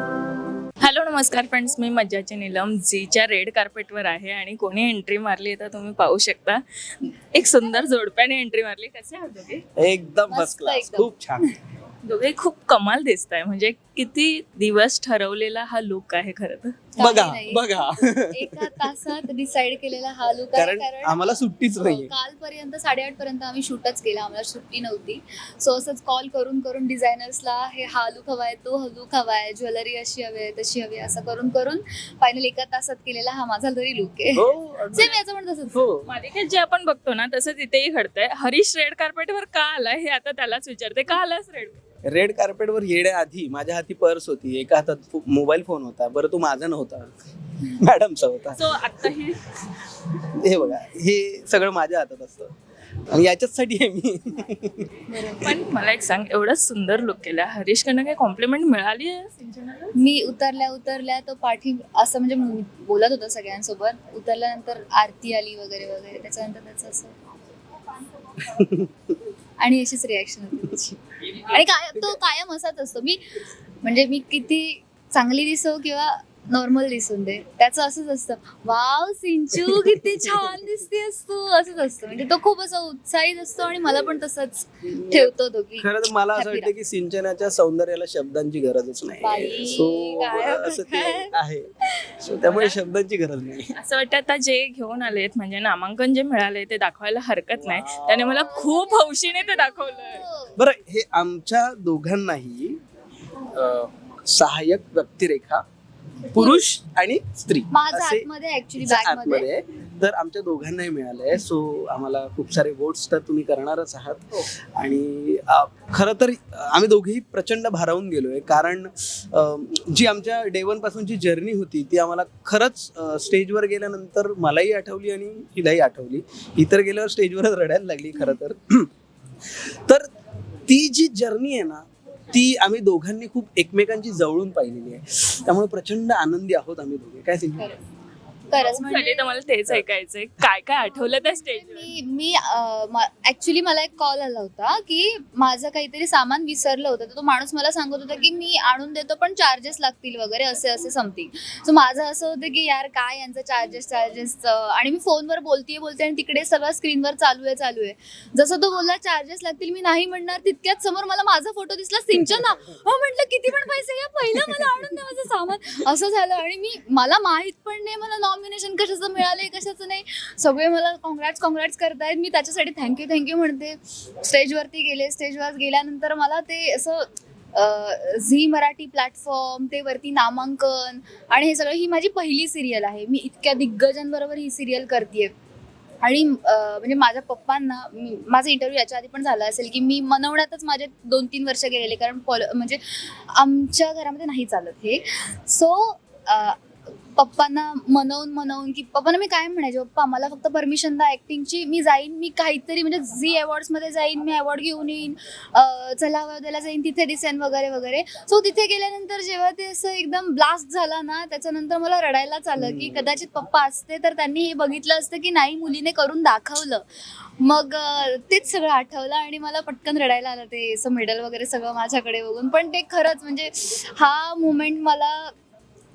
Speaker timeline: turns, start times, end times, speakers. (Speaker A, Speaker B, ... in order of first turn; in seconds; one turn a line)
Speaker A: 0.8-9.6
Speaker B: 9.8-11.5
Speaker C: 10.3-11.1
Speaker A: 12.0-16.9
Speaker C: 16.9-35.8
Speaker B: 17.0-18.8
Speaker B: 20.5-22.1
Speaker B: 34.3-35.1
Speaker B: 35.7-36.1
Speaker A: 36.0-41.8
Speaker B: 42.0-48.7
Speaker A: 48.5-49.4
Speaker B: 49.6-52.5
Speaker B: 53.1-55.0
Speaker C: 55.1-55.5
Speaker A: 55.4-59.9
Speaker C: 60.0-67.1
Speaker B: 68.4-68.9
Speaker C: 69.6-73.2
Speaker C: 73.8-86.7
Speaker B: 84.9-91.7
Speaker C: 89.2-91.3
Speaker B: 92.2-93.7
Speaker A: 92.5-92.8
Speaker A: 93.8-100.2
Speaker B: 97.5-98.6
Speaker C: 98.4-100.6
Speaker B: 100.5-102.8
Speaker B: 103.5-105.6
Speaker B: 106.3-108.3
Speaker C: 106.3-106.6
Speaker C: 107.7-109.5
Speaker B: 108.8-128.9
Speaker B: 130.7-137.7
Speaker C: 138.5-139.4
Speaker A: 138.5-141.9
Speaker C: 140.9-185.3
Speaker C: 186.0-196.6
Speaker C: 197.2-225.3
Speaker B: 212.6-213.1